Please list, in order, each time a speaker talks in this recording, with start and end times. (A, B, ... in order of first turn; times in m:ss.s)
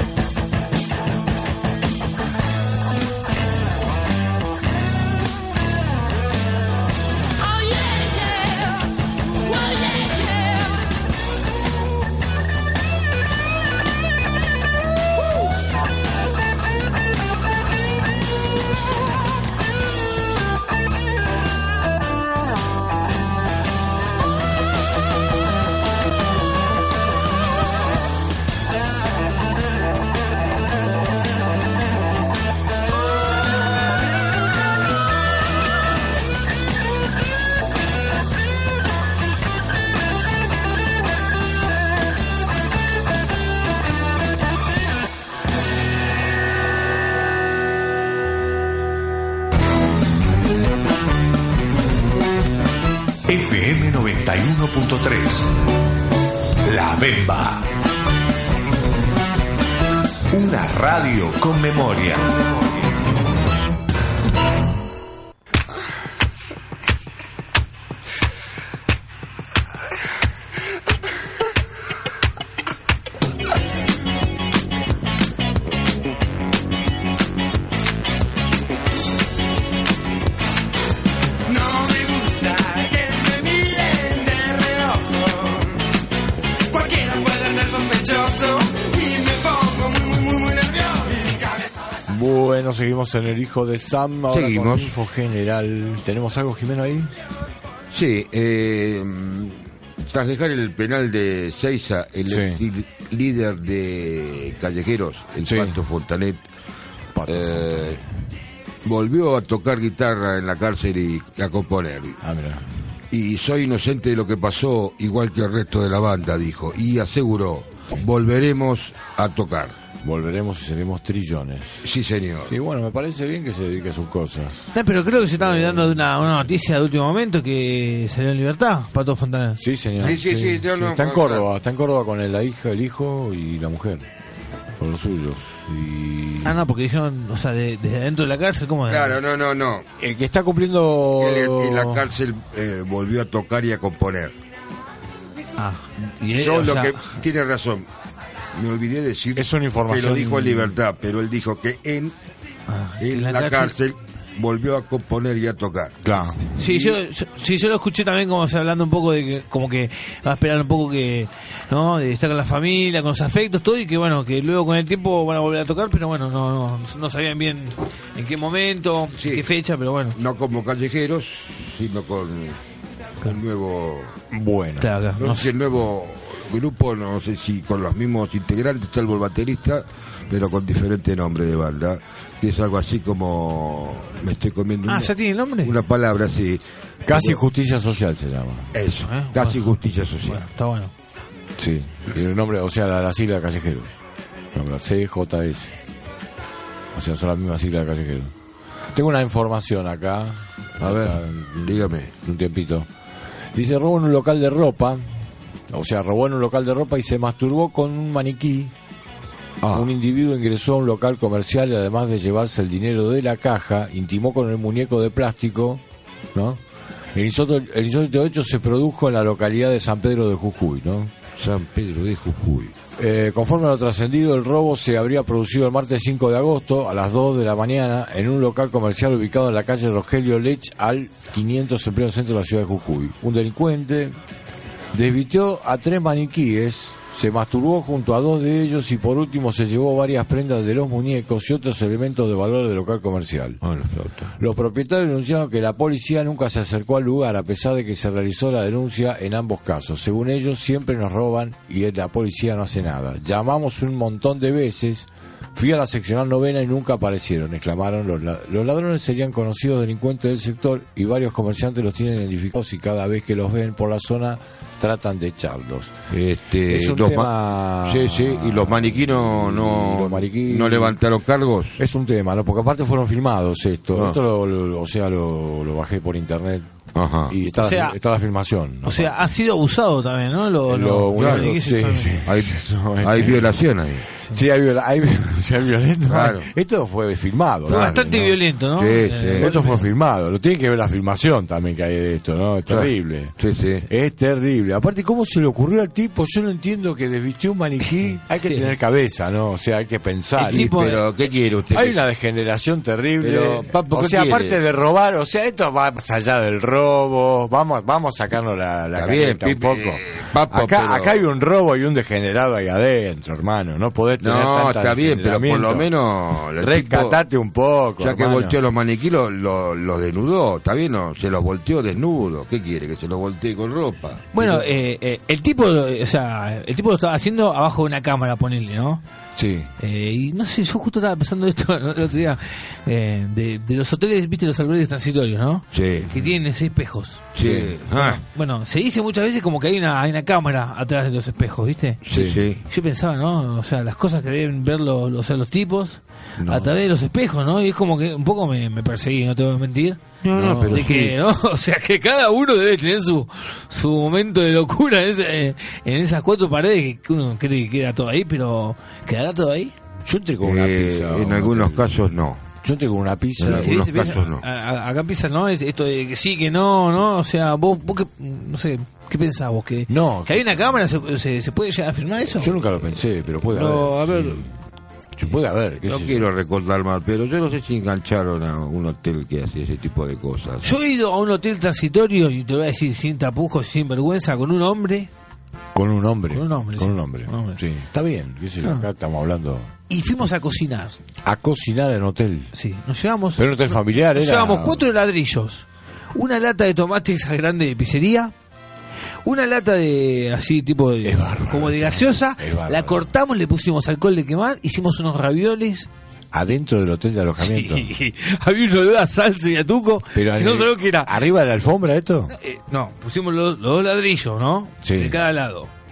0:07.4-0:10.9 A
0:53.3-0:55.5 B
0:56.6-0:57.7 B
1:00.3-1:02.5 B
1:21.5-1:25.6 C
1:26.7-1:31.7 C
1:32.1-1:37.1 D
1:34.3-1:34.9 E
1:37.9-1:46.4 E
1:42.3-1:42.6 D
1:45.4-1:45.8 D
1:47.1-1:48.0 D
1:47.3-1:48.0 E
1:48.8-1:52.2 E
1:52.2-1:52.6 D
1:53.1-1:59.8 E
2:00.0-2:01.9 D
2:01.8-2:02.5 E
2:02.4-2:06.5 D
2:04.7-2:09.6 F
2:09.6-2:14.1 D
2:10.0-2:11.5 E
2:14.8-2:16.6 D
2:16.4-2:19.2 F
2:18.9-2:19.8 E
2:20.0-2:22.1 D
2:21.2-2:24.3 E
2:25.6-2:27.0 F
2:26.4-2:27.9 E
2:28.5-2:32.1 E
2:29.4-2:30.8 D
2:32.7-2:33.8 F
2:33.0-2:37.0 E
2:36.0-2:36.5 D
2:36.6-2:50.2 F
2:49.2-2:49.5 E
2:50.1-2:52.6 E
2:53.2-2:54.2 E
2:54.3-2:54.9 D
2:54.8-2:55.5 F
2:55.2-3:07.4 E
3:04.9-3:05.8 F
3:07.1-3:08.7 D
3:08.7-3:10.4 E
3:09.0-3:10.9 F
3:11.6-3:13.9 D
3:14.5-3:15.8 D
3:16.9-3:18.3 D
3:18.9-3:22.9 D
3:20.8-3:22.1 E
3:23.6-3:25.1 D
3:25.7-3:28.7 D
3:29.6-3:29.9 E
3:29.7-3:35.8 D
3:36.3-3:36.6 D
3:37.2-3:41.1 D
3:41.4-3:42.8 E
3:43.0-3:54.2 D
3:54.9-4:03.6 D
4:03.6-4:04.3 E
4:04.4-4:25.9 D
4:26.1-4:31.8 E
4:26.7-4:31.0 D
4:31.8-4:36.7 D
4:37.0-4:37.4 E
4:37.3-4:39.2 D
4:37.6-4:38.0 F
4:38.8-4:42.2 F
4:40.7-4:43.6 D
4:41.2-4:41.5 E
4:42.2-4:44.1 E
4:44.3-4:48.4 D
4:46.1-4:46.5 E
4:47.7-4:48.0 E
4:47.7-4:49.8 F
4:48.8-4:49.5 E
4:49.3-5:00.8 D
4:52.7-4:53.9 E
4:58.4-4:58.7 F
5:00.4-5:01.0 F
5:00.4-5:02.0 E
5:01.7-5:15.9 D
5:03.2-5:04.6 E
5:09.0-5:11.2 E
5:14.2-5:17.2 E
5:16.5-5:18.6 D
5:18.0-5:24.3 E
5:24.3-5:29.0 F
5:24.4-5:24.7 D
5:29.4-5:29.7 D
5:29.8-5:37.3 F
5:35.7-5:36.1 E
5:36.1-5:36.4 D
5:37.4-5:38.2 E
5:37.4-5:37.8 D
5:38.0-5:42.0 F
5:42.1-5:42.6 E
5:42.1-5:42.4 D
5:42.7-5:50.0 F
5:46.4-5:46.7 D
5:50.2-5:51.1 E
5:50.3-5:50.9 D
5:50.7-5:59.7 F
6:00.0-6:02.0 D
6:00.4-6:02.4 E
6:02.6-6:03.9 D
6:03.4-6:04.4 E
6:03.4-6:12.6 F
6:09.9-6:10.6 D
6:12.4-6:14.5 D
6:13.5-6:14.5 E
6:15.2-6:16.3 D
6:15.8-6:20.7 E
6:20.6-6:25.1 F
6:25.7-6:29.7 D
6:26.3-6:27.6 F
6:29.9-6:31.0 F
6:31.2-6:32.5 D
6:32.6-6:38.3 F
6:33.4-6:34.8 D
6:39.2-6:45.9 F
6:41.0-6:43.1 D
6:46.3-6:47.9 D
6:47.4-6:51.2 F
6:50.1-6:52.3 D
6:52.3-6:55.7 F
6:54.8-6:55.2 D